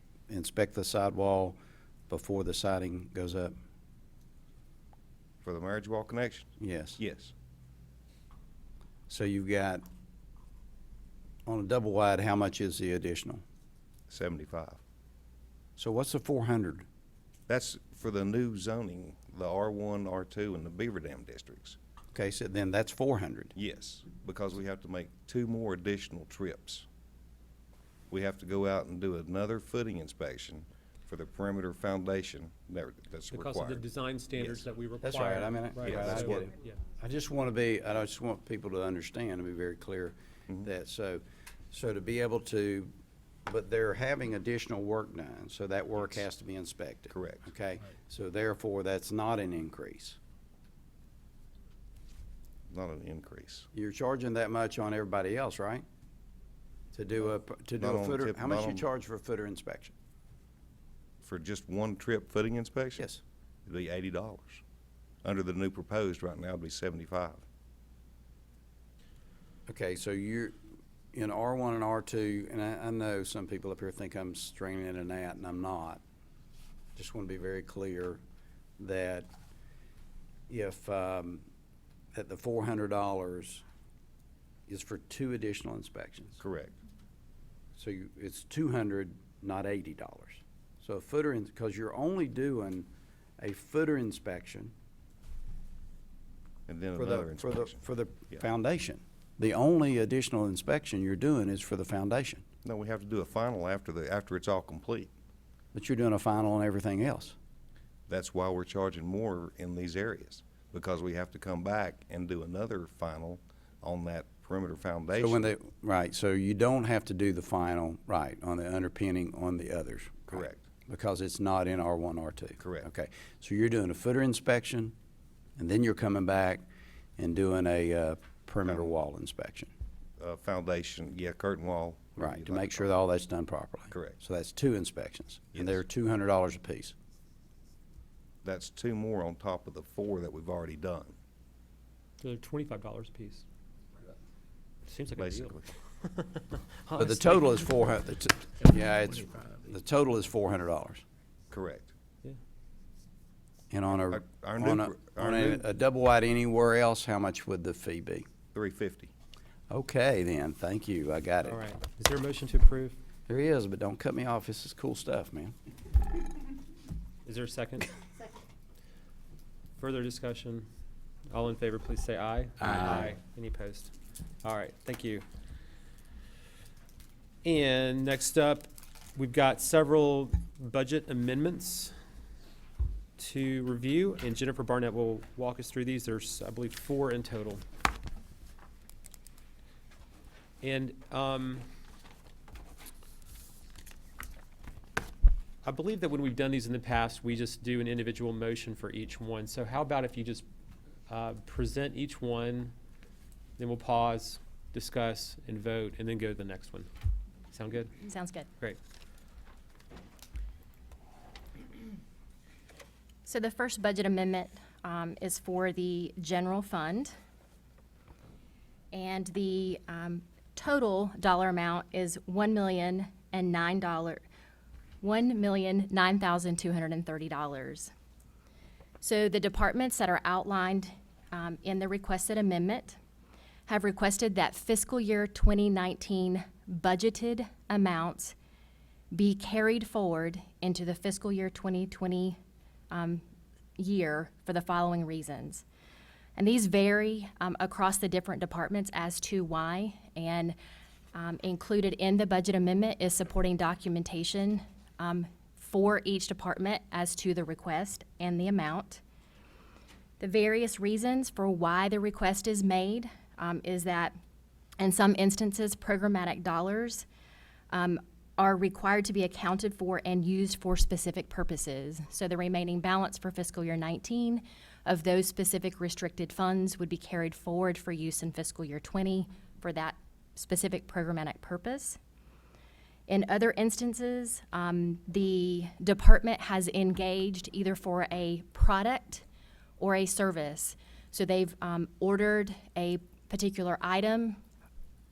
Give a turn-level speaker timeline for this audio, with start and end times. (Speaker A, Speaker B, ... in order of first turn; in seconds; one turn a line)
Speaker A: 0.3-1.6
Speaker A: 2.1-3.5
Speaker B: 5.4-7.3
Speaker A: 6.6-7.0
Speaker A: 9.1-9.8
Speaker A: 11.4-13.4
Speaker B: 14.1-14.8
Speaker A: 15.8-16.9
Speaker B: 17.5-21.8
Speaker A: 22.1-23.5
Speaker B: 23.5-26.9
Speaker B: 28.1-34.7
Speaker C: 33.3-36.8
Speaker A: 35.0-42.9
Speaker B: 35.8-36.5
Speaker A: 43.5-50.2
Speaker B: 47.1-47.4
Speaker B: 52.7-53.7
Speaker A: 53.7-55.8
Speaker A: 56.9-59.9
Speaker B: 57.8-58.9
Speaker B: 61.2-63.0
Speaker A: 63.0-63.2
Speaker B: 63.6-64.6
Speaker B: 65.2-67.4
Speaker A: 69.7-70.5
Speaker A: 71.1-76.0
Speaker A: 77.0-78.2
Speaker A: 78.8-79.3
Speaker A: 80.5-81.4
Speaker A: 82.1-83.6
Speaker A: 84.7-86.4
Speaker B: 86.4-86.7
Speaker A: 87.8-92.9
Speaker A: 93.4-94.7
Speaker B: 96.7-98.4
Speaker A: 97.0-102.5
Speaker B: 102.6-105.1
Speaker A: 105.7-107.3
Speaker B: 108.1-115.5
Speaker A: 115.2-124.9
Speaker B: 120.3-120.6
Speaker B: 122.6-122.9
Speaker A: 125.6-126.6
Speaker A: 127.2-129.7
Speaker B: 130.2-132.9
Speaker A: 132.2-136.9
Speaker B: 133.9-134.2
Speaker B: 135.5-135.8
Speaker B: 138.4-141.1
Speaker C: 142.2-143.4
Speaker C: 144.8-147.7
Speaker B: 145.2-145.7
Speaker A: 146.9-151.0
Speaker B: 151.5-151.9
Speaker A: 153.7-158.2
Speaker B: 154.1-155.7
Speaker B: 158.5-159.1
Speaker A: 159.7-161.6
Speaker C: 161.4-163.0
Speaker A: 163.3-165.5
Speaker C: 167.2-167.9
Speaker C: 169.8-170.7
Speaker C: 171.3-173.9
Speaker C: 174.4-175.2
Speaker C: 177.4-181.9
Speaker C: 183.2-187.6
Speaker C: 190.6-191.7
Speaker C: 195.6-200.4
Speaker C: 201.1-202.7
Speaker C: 203.6-206.9
Speaker C: 207.5-207.9
Speaker D: 208.0-208.5
Speaker D: 213.2-217.1
Speaker D: 218.9-224.2
Speaker D: 225.0-227.9
Speaker D: 229.0-233.0
Speaker D: 233.7-238.3
Speaker D: 239.1-242.4
Speaker D: 242.9-243.2
Speaker D: 243.8-245.6
Speaker D: 246.3-250.6
Speaker D: 251.1-259.0
Speaker D: 260.2-264.1
Speaker D: 264.8-267.0
Speaker D: 267.7-282.0
Speaker D: 283.1-289.2
Speaker D: 289.8-294.4